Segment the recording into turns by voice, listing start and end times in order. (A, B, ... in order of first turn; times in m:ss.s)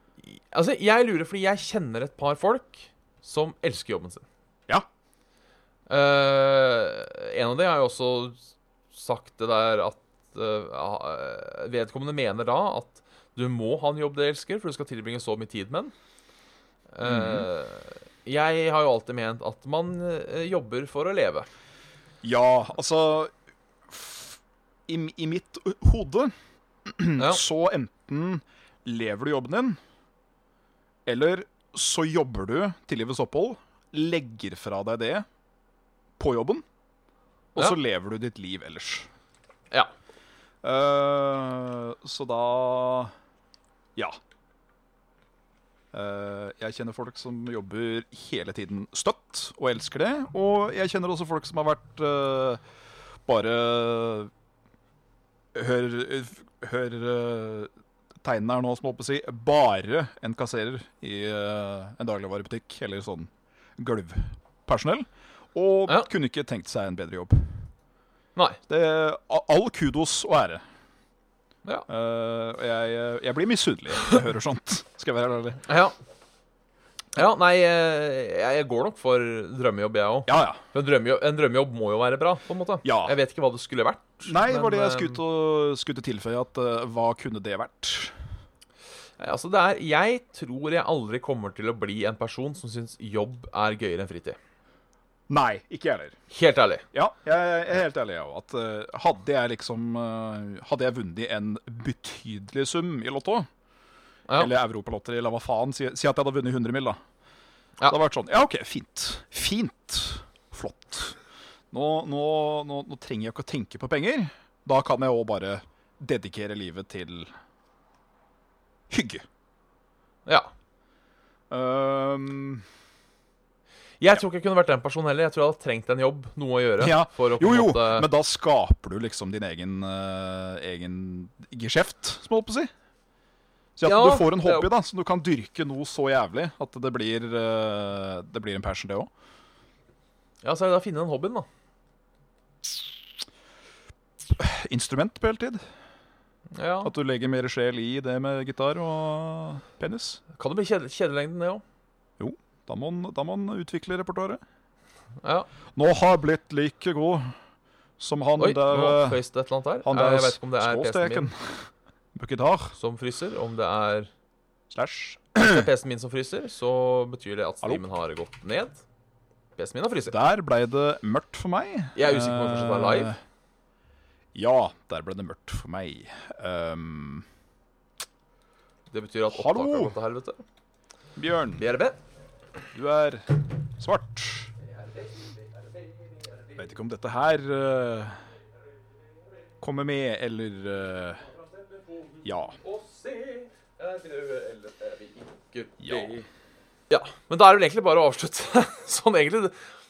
0:00.2-0:04.2 A
0:05.9-0:08.4 A
0:08.9-0:15.9 A
0:16.9-0:21.5 A
0:17.0-0:17.4 B
0:22.2-0:23.3 B
0:23.9-0:26.3 B
0:26.8-0:29.8 B
0:27.2-0:27.4 A
0:31.0-0:35.2 B
0:36.2-0:36.6 B
0:37.5-0:39.1 B
0:40.6-0:43.1 B
0:45.9-0:52.6 B
0:53.2-0:54.3 B
0:55.5-0:57.7 B
0:58.2-1:07.6 B
1:08.7-1:10.6 B
1:11.9-1:15.6 B
1:15.6-1:16.0 A
1:17.1-1:25.2 A
1:20.3-1:20.6 B
1:22.8-1:23.1 B
1:24.2-1:28.1 B
1:29.2-1:34.4 A
1:35.3-1:36.1 B
1:36.3-1:36.8 A
1:36.9-1:43.5 B
1:44.4-1:47.0 B
1:47.9-1:51.2 B
1:51.7-1:57.3 B
1:58.9-1:59.2 B
2:00.2-2:00.5 A
2:01.5-2:02.6 B
2:04.0-2:08.1 A
2:06.8-2:12.7 B
2:13.8-2:19.1 B
2:13.8-2:14.7 A
2:20.4-2:21.5 A
2:24.3-2:25.6 B
2:26.5-2:26.9 A
2:26.8-2:30.2 B
2:30.3-2:31.6 A
2:32.2-2:34.4 B
2:35.2-2:35.5 A
2:35.7-2:37.3 B
2:38.0-2:39.2 B
2:38.4-2:41.3 A
2:39.8-2:42.8 B
2:42.8-2:44.1 A
2:44.7-2:45.7 B
2:45.4-2:48.8 A
2:49.6-2:50.1 A
2:50.1-2:53.2 B
2:51.9-2:53.1 A
2:54.3-2:57.2 B
2:58.9-3:00.4 A
2:59.3-2:59.9 B
3:01.2-3:01.6 B
3:01.6-3:02.0 A
3:02.7-3:04.5 B
3:06.5-3:08.2 B
3:09.6-3:11.2 B
3:12.2-3:12.6 B
3:12.6-3:16.3 A
3:15.8-3:16.2 B
3:16.9-3:19.6 A